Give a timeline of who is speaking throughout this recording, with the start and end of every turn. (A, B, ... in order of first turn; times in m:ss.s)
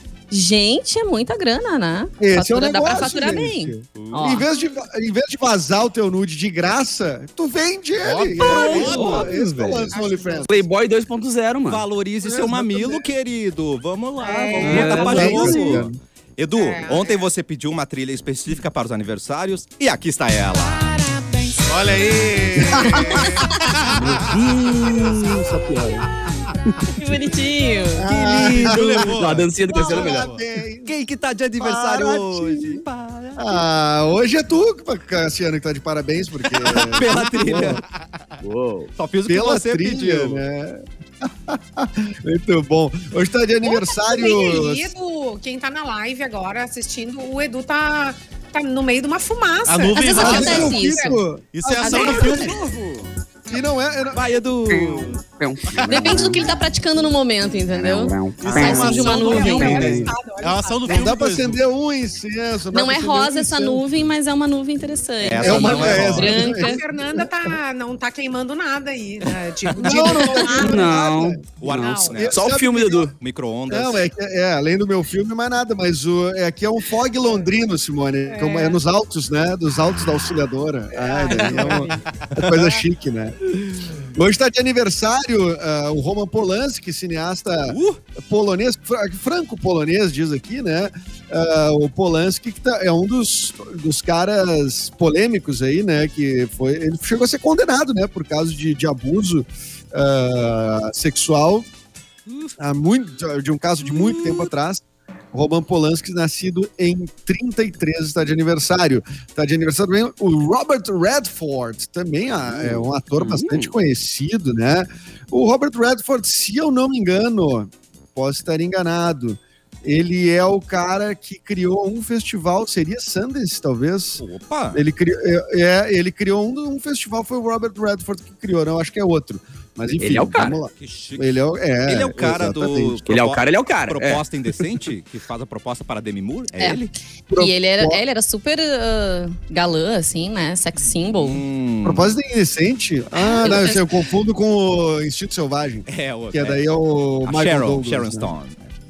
0:00.3-0:04.5 A
0:02.2-0:10.6 B
0:03.9-0:04.3 C
0:08.0-0:10.0 C
0:08.4-0:09.3 D
0:08.7-0:09.2 E
0:09.9-0:10.5 E
0:10.5-0:11.8 F
0:11.7-0:21.0 C
0:12.2-0:13.1 B
0:14.2-0:15.8 E
0:14.6-0:15.5 F
0:14.6-0:16.0 B
0:16.5-0:17.3 E
0:20.7-0:21.6 E
0:21.6-0:25.7 D
0:22.6-0:23.4 B
0:23.9-0:26.1 F
0:26.9-0:28.1 A
0:28.0-0:29.2 B
0:28.0-0:29.0 C
0:28.4-0:30.4 D
0:29.1-0:30.3 F
0:29.7-0:31.0 B
0:30.8-0:33.6 C
0:31.6-0:32.8 B
0:33.4-0:37.8 B
0:36.6-0:37.8 C
0:37.0-0:38.2 D
0:38.4-0:38.9 F
0:39.0-0:40.4 C
0:39.3-0:44.9 B
0:43.6-0:51.2 E
0:49.6-0:51.0 D
0:50.0-0:51.2 A
0:50.1-0:52.6 B
0:51.5-0:52.6 D
0:51.8-0:52.6 E
0:52.5-0:53.1 C
0:53.5-0:54.3 B
0:54.1-0:55.2 C
0:54.7-0:56.5 F
0:55.8-0:56.4 D
0:55.8-1:00.0 A
0:57.7-1:00.1 F
0:58.4-1:01.6 D
0:58.5-0:59.2 C
0:58.5-1:01.1 E
1:00.8-1:04.1 B
1:02.7-1:06.8 A
1:05.2-1:06.5 C
1:05.4-1:07.5 B
1:06.4-1:11.1 E
1:09.7-1:10.1 C
1:09.8-1:11.6 B
1:10.3-1:13.1 F
1:11.6-1:12.4 C
1:11.6-1:12.2 E
1:12.1-1:13.1 B
1:13.2-1:14.0 C
1:13.7-1:41.7 B
1:18.3-1:18.8 E
1:20.9-1:22.0 E
1:21.4-1:22.5 D
1:27.7-1:28.0 C
1:42.6-2:04.2 B
1:53.2-1:53.7 F
2:04.2-2:04.8 C
2:04.7-2:13.0 B
2:10.0-2:10.6 F
2:10.4-2:16.9 C
2:13.1-2:14.3 F
2:16.6-2:21.4 A
2:17.3-2:18.0 B
2:21.2-2:22.1 C
2:21.8-2:28.3 B
2:23.2-2:23.8 A
2:25.9-2:26.7 C
2:27.2-2:28.7 C